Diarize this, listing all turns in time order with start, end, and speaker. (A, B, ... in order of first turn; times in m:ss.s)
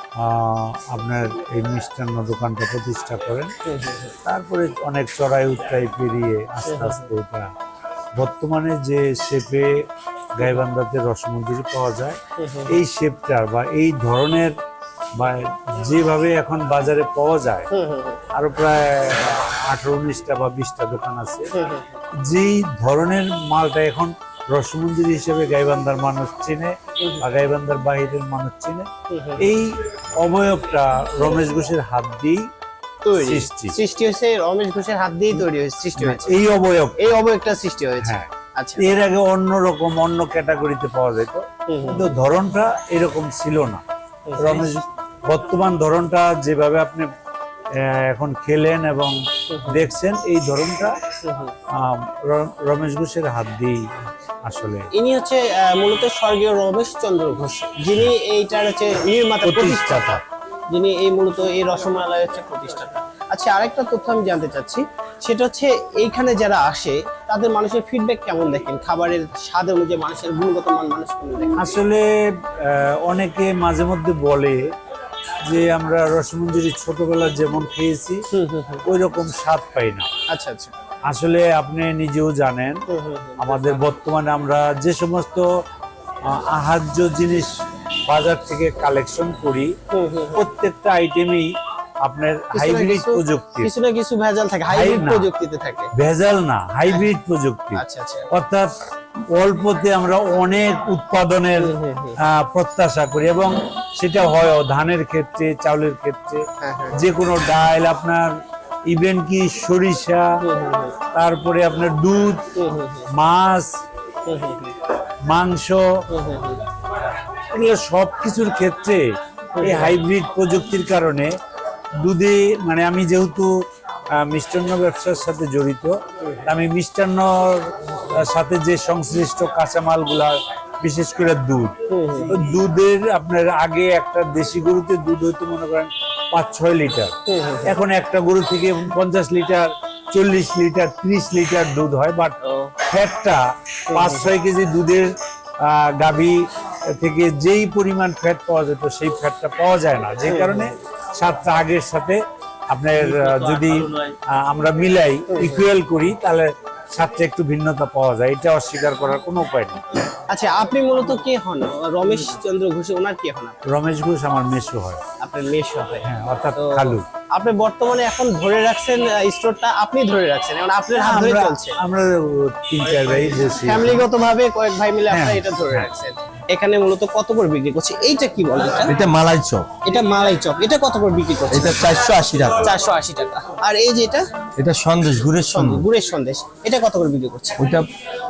0:00.2-0:03.5 A
0:03.6-0:04.1 B
0:04.2-0:07.5 A
0:06.6-0:07.1 B
0:08.2-0:14.5 A
0:12.4-0:12.7 B
0:15.2-0:17.7 A
0:17.7-0:18.2 B
0:18.3-0:21.5 A
0:21.5-0:22.0 B
0:22.2-0:28.9 A
0:29.1-0:29.4 B
0:29.4-0:32.4 A
0:33.0-0:36.4 B
0:33.2-0:33.8 A
0:36.0-0:37.0 A
0:37.0-0:38.9 B
0:38.0-0:43.8 A
0:41.7-0:42.1 B
0:44.3-0:44.6 B
0:44.4-0:47.1 A
0:47.8-0:51.0 A
0:49.5-0:49.8 B
0:51.2-0:51.5 B
0:51.7-0:53.8 A
0:54.4-0:54.9 A
0:54.9-1:11.7 B
0:59.4-1:00.2 A
1:11.6-1:12.0 A
1:12.6-1:14.7 A
1:15.4-1:18.2 A
1:18.3-1:18.8 B
1:18.8-1:20.1 A
1:20.3-1:20.7 B
1:21.1-1:22.8 A
1:22.9-1:23.6 B
1:23.4-1:25.4 A
1:26.3-1:27.5 A
1:28.1-1:29.7 A
1:29.9-1:30.4 B
1:30.3-1:31.5 A
1:32.0-1:33.7 A
1:32.5-1:35.9 B
1:34.7-1:35.3 A
1:36.0-1:38.7 A
1:37.8-1:38.3 B
1:39.3-1:48.3 A
1:41.6-1:42.2 B
1:46.6-1:47.0 B
1:48.9-1:50.3 A
1:50.4-1:51.0 B
1:51.1-1:52.5 A
1:52.5-1:53.1 B
1:53.1-1:53.7 A
1:54.2-1:54.7 B
1:55.2-1:56.0 A
1:56.1-1:56.6 B
1:57.5-1:59.0 A
1:59.6-2:00.0 B
1:59.6-2:01.3 A
2:02.0-2:03.5 A
2:04.2-2:11.7 A
2:11.9-2:12.4 B
2:12.2-2:39.8 A
2:17.3-2:17.7 B
2:22.4-2:22.7 B
2:23.9-2:24.2 B
2:30.3-2:30.6 B
2:35.3-2:35.6 B
2:40.3-2:43.6 B
2:43.7-2:45.0 A
2:45.2-2:51.8 B
2:46.0-2:47.0 A
2:51.0-2:54.0 A
2:53.3-2:59.0 B
2:55.1-2:55.9 A
2:58.9-2:59.7 C
2:59.8-3:01.9 B
3:01.5-3:02.7 C
3:02.6-3:04.3 B
3:04.6-3:05.8 C
3:05.4-3:07.6 B
3:07.6-3:07.8 C